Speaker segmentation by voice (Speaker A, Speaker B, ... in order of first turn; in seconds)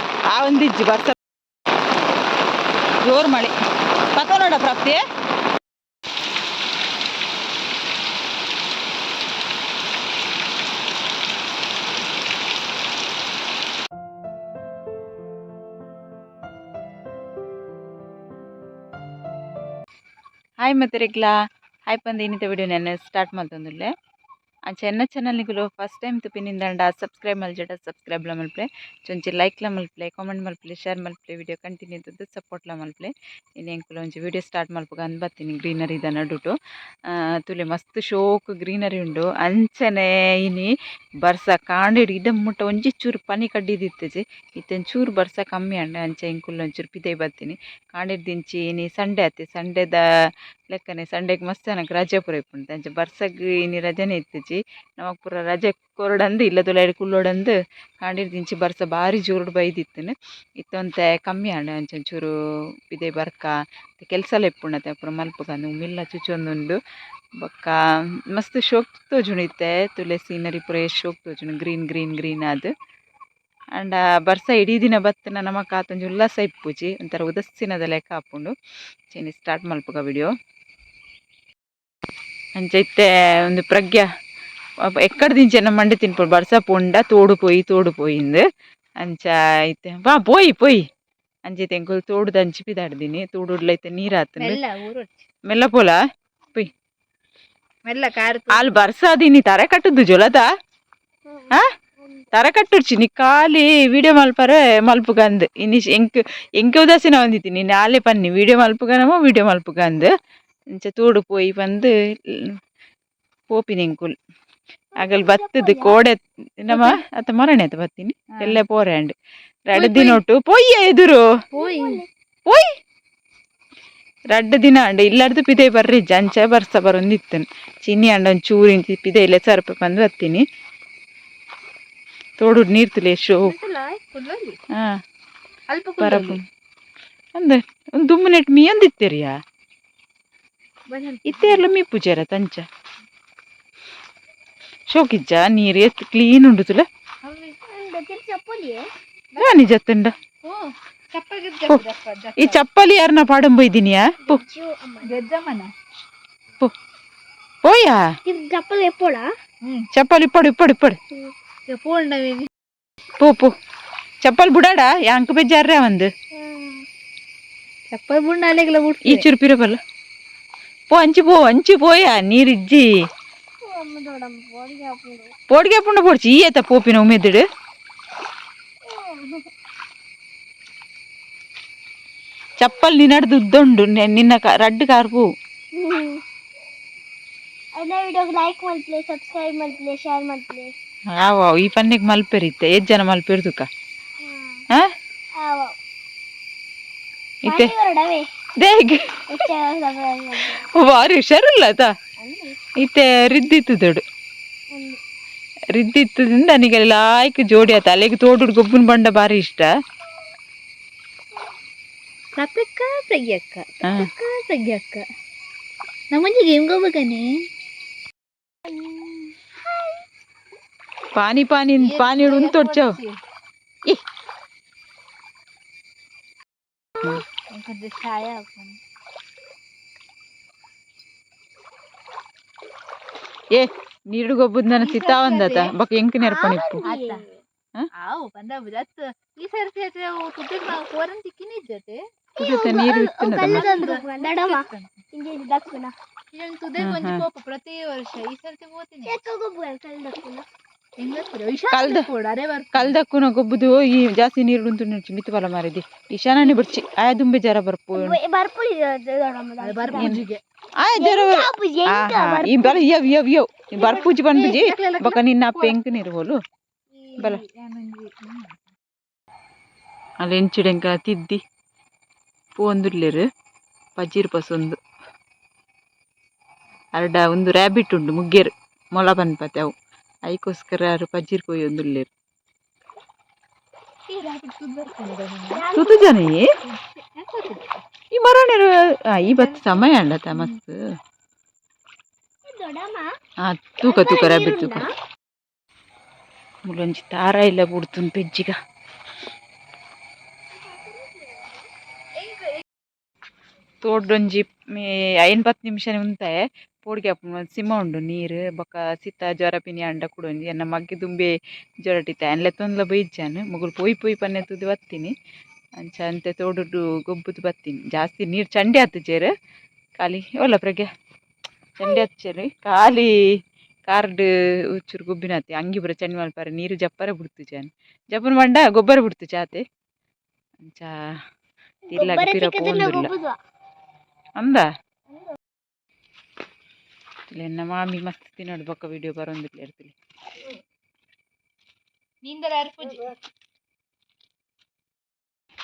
Speaker A: 0.3-1.2, 3.0-3.5, 4.1-5.0, 20.6-21.3, 21.9-23.9, 24.7-36.5, 37.1-50.0, 50.7-62.3, 62.9-66.8, 67.4-67.8, 68.3-72.7, 73.8-78.5, 79.1-80.3, 82.6-84.0, 84.9-88.4, 89.0-90.8, 91.5-94.6, 95.5-96.0, 98.5-100.5, 102.3-110.1, 110.8-112.5, 113.5-114.1, 115.0-119.1, 119.7-121.2, 124.3-130.4, 132.4-133.6, 136.0-136.4, 137.4-139.3, 141.2-142.7, 144.9-146.8, 149.4-150.1, 152.4-154.4, 157.6-158.1, 159.9-161.0, 163.2-163.5, 164.2-166.1, 169.1-169.8, 170.9-172.9, 175.5-177.4, 182.6-185.2, 191.1-193.7, 197.4-197.7, 198.6-199.2, 200.5-201.9, 202.8-204.0, 205.7-209.7, 221.2-223.0, 233.5-236.8, 242.4-243.8, 246.8-247.2, 251.7-252.1, 252.7-258.2, 259.9-260.2, 260.8-266.4, 270.2-271.4, 272.6-273.2, 274.0-274.8, 277.0-279.7, 280.3-282.1, 285.8-286.4, 288.1-290.8, 293.4-294.9, 296.6-298.5, 303.8-315.1, 315.8-319.3, 320.0-320.9, 321.8-323.1, 323.9-329.6, 330.6-330.9, 331.9-333.1, 334.4-334.7, 337.3-339.9
Speaker B: 94.4-95.2, 97.8-98.8, 118.3-118.6, 119.7-120.2, 121.5-122.0, 133.4-134.6, 135.7-136.4, 140.9-141.7, 147.2-147.6, 149.3-149.7, 150.4-152.6, 155.0-155.7, 159.6-159.9, 161.7-162.5, 167.9-169.3, 212.4-215.1, 216.1-217.3, 221.8-223.2, 227.5-228.8, 234.8-235.7, 236.8-237.3, 237.9-242.0, 243.4-245.0, 246.3-249.2, 251.0-252.9, 259.6-260.4, 263.8-265.8, 266.9-268.6, 284.1-285.7, 286.6-287.8, 289.3-290.5, 342.2-343.1
Speaker C: 101.3-102.3, 115.0-116.0, 121.6-122.1, 147.7-148.9, 154.2-155.1, 158.2-159.3, 166.3-166.8, 173.6-175.3, 178.9-179.5, 185.7-186.2, 187.8-190.7, 194.2-194.6, 195.4-195.7, 197.5-198.3, 199.3-200.7, 202.2-202.6, 204.7-205.0, 218.7-220.0, 236.2-237.3, 242.4-245.9, 249.1-250.4, 257.9-260.1, 261.0-262.8, 285.5-286.1, 292.5-293.1, 293.8-294.9, 300.6-301.5, 331.9-333.4